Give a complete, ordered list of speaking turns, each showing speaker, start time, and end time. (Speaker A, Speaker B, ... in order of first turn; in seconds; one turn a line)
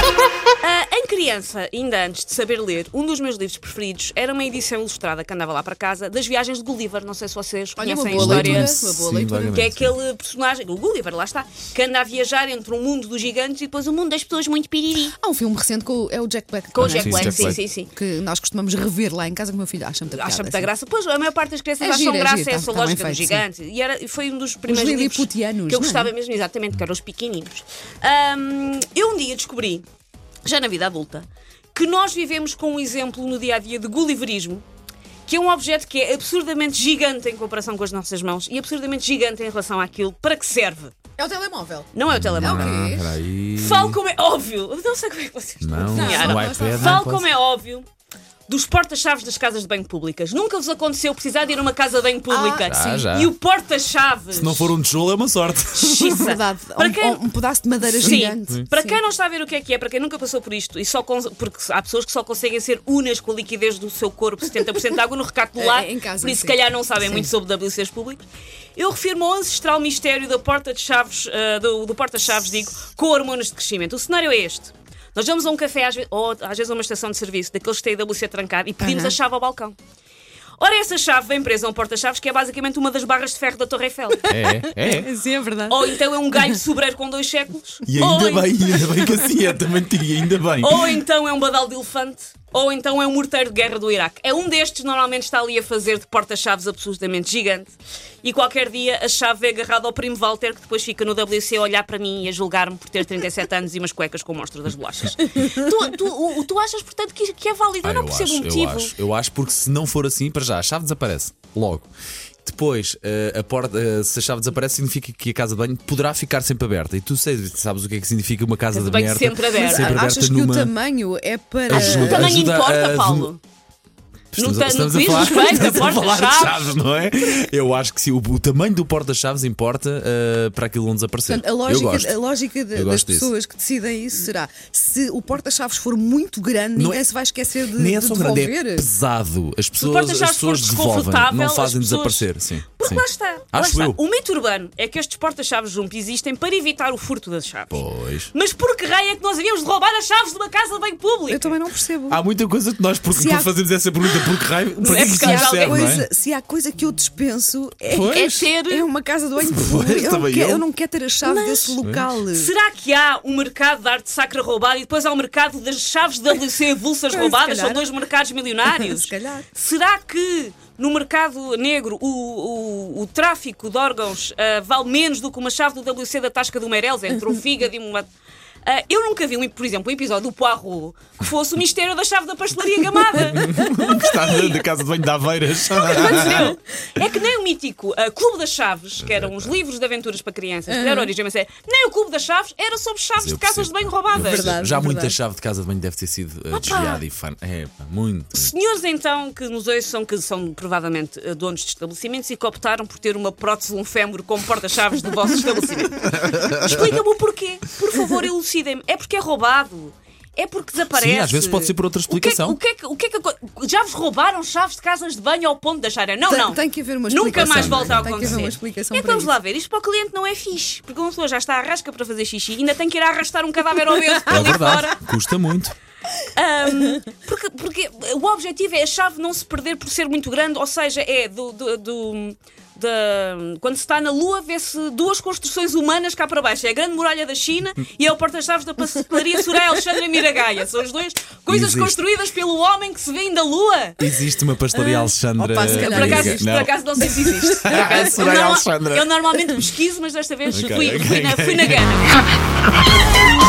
Speaker A: 0.6-15.1
Speaker B: 7.8-9.7
Speaker C: 8.1-9.9
Speaker B: 15.2-20.7
Speaker A: 16.7-17.9
Speaker C: 16.8-17.6
Speaker A: 20.1-29.8
Speaker B: 21.8-23.4
Speaker B: 24.6-26.1
Speaker A: 30.4-34.6
Speaker A: 35.2-40.9
Speaker B: 41.2-43.1
Speaker A: 41.9-42.9
Speaker C: 42.1-44.0
Speaker A: 43.5-47.9
Speaker C: 45.6-47.3
Speaker B: 45.9-47.2
Speaker A: 48.5-54.7
Speaker B: 52.3-52.7
Speaker C: 52.6-53.3
Speaker C: 54.3-56.2
Speaker A: 55.7-57.2
Speaker B: 56.1-59.0
Speaker A: 57.9-68.2
Speaker C: 58.1-58.6
Speaker B: 65.5-67.3
Speaker A: 68.8-79.8
Speaker B: 78.8-79.1
Speaker A: 80.6-84.3
Speaker B: 84.1-86.5
Speaker C: 84.3-85.1
Speaker A: 85.7-88.5
Speaker C: 87.8-91.0
Speaker A: 90.6-108.9
Speaker C: 107.8-111.9
Speaker C: 112.4-120.7
Speaker A: 118.7-120.0
Speaker B: 119.5-122.4
Speaker C: 121.7-123.3
Speaker A: 121.7-123.4
Speaker C: 124.3-133.3
Speaker A: 124.3-126.8
Speaker B: 131.3-138.9
Speaker C: 136.8-137.1
Speaker C: 137.7-144.0
Speaker A: 139.8-147.8
Speaker C: 147.7-148.3
Speaker A: 148.3-151.6
Speaker B: 151.3-152.2
Speaker C: 152.1-156.1
Speaker B: 153.1-153.5
Speaker A: 154.8-155.9
Speaker B: 155.0-162.5
Speaker C: 157.9-158.5
Speaker A: 158.1-158.9
Speaker C: 159.4-160.6
Speaker A: 161.2-161.8
Speaker C: 161.8-162.1
Speaker A: 162.3-178.1
Speaker B: 167.1-167.9
Speaker B: 168.7-169.4
Speaker A: 178.6-184.5
Speaker C: 183.1-186.5
Speaker A: 185.7-194.6
Speaker B: 185.9-186.4
Speaker C: 189.0-189.6
Speaker B: 190.7-191.1
Speaker C: 193.2-198.5
Speaker B: 194.1-195.2
Speaker A: 196.5-197.0
Speaker A: 198.3-225.0
Speaker C: 206.2-206.8
Speaker C: 210.9-212.6
Speaker B: 216.3-219.3
Speaker C: 217.3-218.5
Speaker C: 224.3-225.8
Speaker A: 226.3-244.1
Speaker C: 241.5-242.0
Speaker C: 244.0-249.1
Speaker B: 245.3-246.5
Speaker A: 245.6-252.2
Speaker C: 250.5-251.9